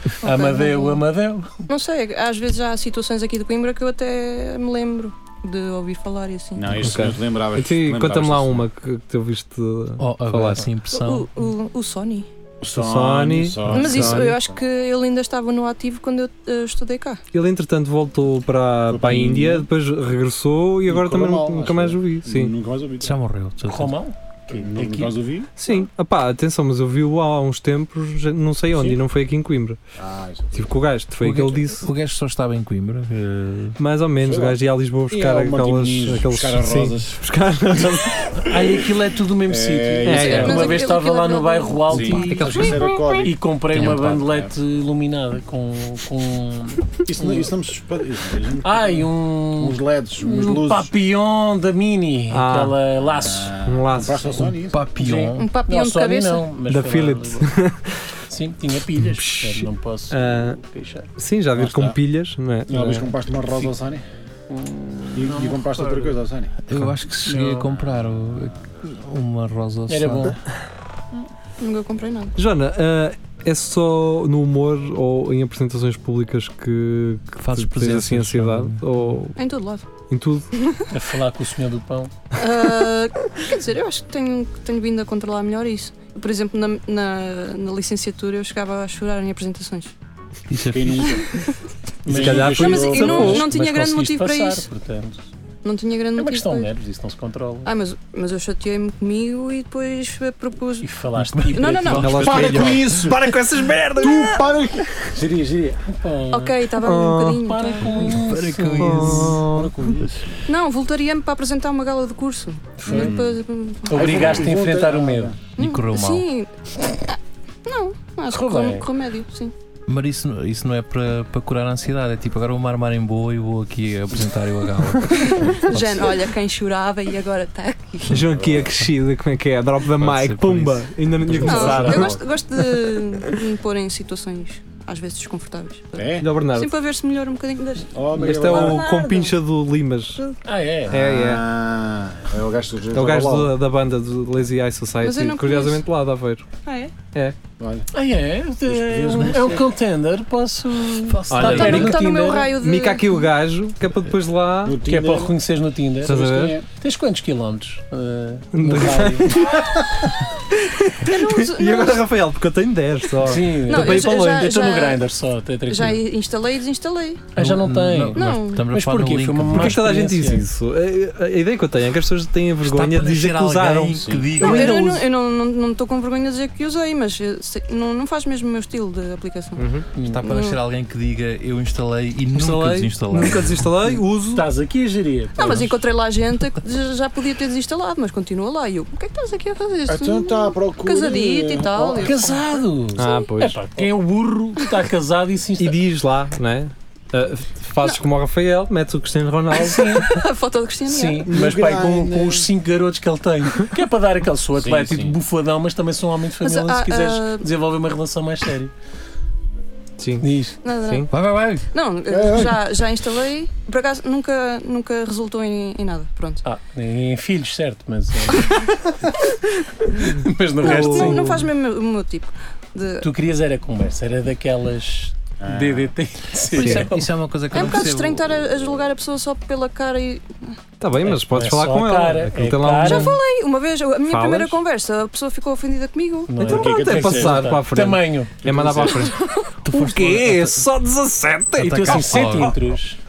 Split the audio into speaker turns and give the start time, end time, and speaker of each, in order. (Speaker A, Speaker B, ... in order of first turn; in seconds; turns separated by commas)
Speaker A: 0.2-1.0, Speaker B: 0.2-1.6, Speaker A: 1.7-6.8, Speaker C: 6.5-8.7, Speaker D: 6.8-10.7, Speaker E: 10.0-11.5, Speaker A: 10.9-12.3, Speaker C: 12.6-14.6, Speaker D: 12.7-14.3, Speaker A: 13.7-17.2, Speaker D: 17.3-22.5, Speaker C: 18.9-19.7, Speaker C: 20.9-23.2, Speaker E: 23.0-24.0, Speaker B: 23.7-25.1, Speaker C: 24.5-25.5, Speaker D: 25.6-29.8, Speaker C: 30.0-30.8, Speaker D: 30.5-31.9, Speaker E: 31.2-33.8, Speaker D: 33.8-38.5, Speaker C: 34.2-37.2, Speaker B: 38.4-47.5, Speaker C: 39.5-40.9, Speaker D: 40.1-40.7, Speaker A: 40.2-42.3, Speaker C: 41.9-44.5, Speaker D: 42.3-42.9, Speaker E: 43.7-44.2, Speaker C: 47.1-50.9, Speaker B: 48.6-53.6, Speaker D: 52.3-52.8, Speaker C: 53.0-54.8, Speaker D: 53.7-54.5, Speaker E: 54.7-55.5, Speaker B: 55.0-57.5, Speaker A: 55.4-56.5, Speaker D: 56.7-58.1, Speaker B: 58.3-61.1, Speaker D: 59.0-60.6, Speaker D: 61.2-63.1, Speaker C: 61.5-62.0, Speaker C: 62.7-64.0, Speaker B: 64.5-66.2, Speaker C: 65.2-66.5, Speaker E: 66.7-70.4, Speaker B: 67.2-67.7, Speaker B: 69.9-70.4, Speaker A: 71.6-72.4, Speaker D: 72.4-79.4, Speaker E: 77.4-79.2, Speaker A: 79.4-79.8, Speaker D: 80.1-80.5, Speaker A: 80.6-80.9, Speaker B: 80.9-82.1, Speaker A: 82.3-89.9, Speaker E: 90.5-91.2, Speaker C: 90.7-91.3, Speaker C: 92.0-93.4, Speaker B: 92.0-95.2, Speaker D: 92.1-93.5, Speaker A: 92.5-94.7, Speaker A: 95.6-96.7, Speaker B: 96.2-97.7, Speaker A: 97.7-100.9, Speaker B: 100.8-102.2, Speaker E: 101.2-102.9, Speaker A: 101.5-102.5, Speaker D: 102.0-104.5, Speaker C: 102.2-103.4, Speaker C: 104.0-105.0, Speaker B: 105.2-106.7, Speaker A: 106.3-108.0, Speaker D: 106.8-107.5, Speaker B: 107.4-109.4, Speaker E: 107.8-109.4, Speaker D: 108.8-109.7, Speaker C: 109.5-110.5, Speaker A: 110.5-114.5, Speaker B: 112.8-113.2, Speaker C: 112.9-115.4, Speaker B: 113.9-115.3, Speaker A: 115.6-116.5, Speaker E: 115.6-116.3, Speaker A: 117.0-119.5, Speaker B: 118.3-118.9, Speaker E: 119.9-126.2, Speaker A: 125.2-128.2, Speaker D: 128.1-133.3, Speaker C: 128.3-128.7, Speaker E: 130.0-132.2, Speaker B: 131.4-132.0, Speaker A: 131.4-138.0, Speaker C: 135.9-136.3, Speaker D: 136.2-136.7, Speaker C: 137.9-138.8, Speaker B: 138.2-139.0, Speaker D: 138.2-140.3, Speaker A: 138.6-139.3, Speaker B: 140.4-141.0, Speaker C: 140.9-143.5, Speaker D: 140.9-141.4, Speaker D: 142.9-146.5, Speaker A: 145.0-145.8, Speaker A: 146.7-146.9, Speaker C: 147.6-147.9, Speaker B: 147.9-152.5, Speaker C: 148.7-149.7, Speaker E: 151.1-152.0, Speaker D: 151.3-152.0, Speaker A: 151.4-153.3, Speaker D: 152.6-154.8, Speaker C: 154.6-155.4, Speaker B: 154.9-159.4, Speaker D: 156.0-156.6, Speaker C: 156.1-156.7, Speaker D: 158.5-164.5, Speaker A: 161.0-162.1, Speaker B: 163.2-166.0, Speaker A: 163.7-165.0, Speaker A: 165.7-167.3, Speaker B: 167.3-170.5, Speaker E: 167.4-169.9, Speaker A: 168.1-168.7, Speaker D: 169.5-174.7, Speaker E: 172.6-174.9, Speaker C: 174.0-174.4, Speaker A: 174.4-179.6, Speaker B: 174.4-174.8, Speaker D: 179.6-179.9, Speaker E: 180.0-183.7, Speaker A: 180.2-180.6, Speaker D: 182.3-184.5, Speaker B: 184.3-185.7, Speaker A: 185.4-192.4, Speaker C: 189.9-192.2, Speaker B: 192.0-195.8, Speaker D: 193.0-193.6, Speaker A: 193.0-193.3, Speaker D: 195.6-200.1, Speaker B: 199.6-200.1, Speaker A: 200.0-201.3, Speaker B: 200.9-208.7, Speaker C: 201.2-202.5, Speaker C: 204.6-205.2, Speaker A: 206.4-207.5, Speaker D: 210.0-211.1, Speaker B: 210.2-210.6, Speaker A: 210.6-211.1, Speaker E: 211.1-211.7, Speaker A: 211.7-216.4, Speaker C: 212.1-212.6, Speaker B: 216.4-218.7, Speaker B: 219.9-221.4, Speaker D: 220.6-221.5, Speaker A: 220.6-223.1, Speaker B: 223.0-227.1, Speaker C: 225.4-225.9, Speaker E: 226.5-228.4, Speaker D: 226.5-226.9, Speaker A: 227.5-230.6, Speaker D: 230.8-233.2, Speaker B: 231.0-233.2, Speaker A: 232.8-236.4, Speaker D: 234.1-234.6, Speaker B: 236.3-238.8, Speaker D: 236.4-242.4, Speaker C: 236.4-237.6, Speaker C: 238.4-238.9, Speaker A: 238.9-239.5, Speaker E: 239.7-240.6, Speaker E: 241.6-242.8, Speaker B: 241.6-243.0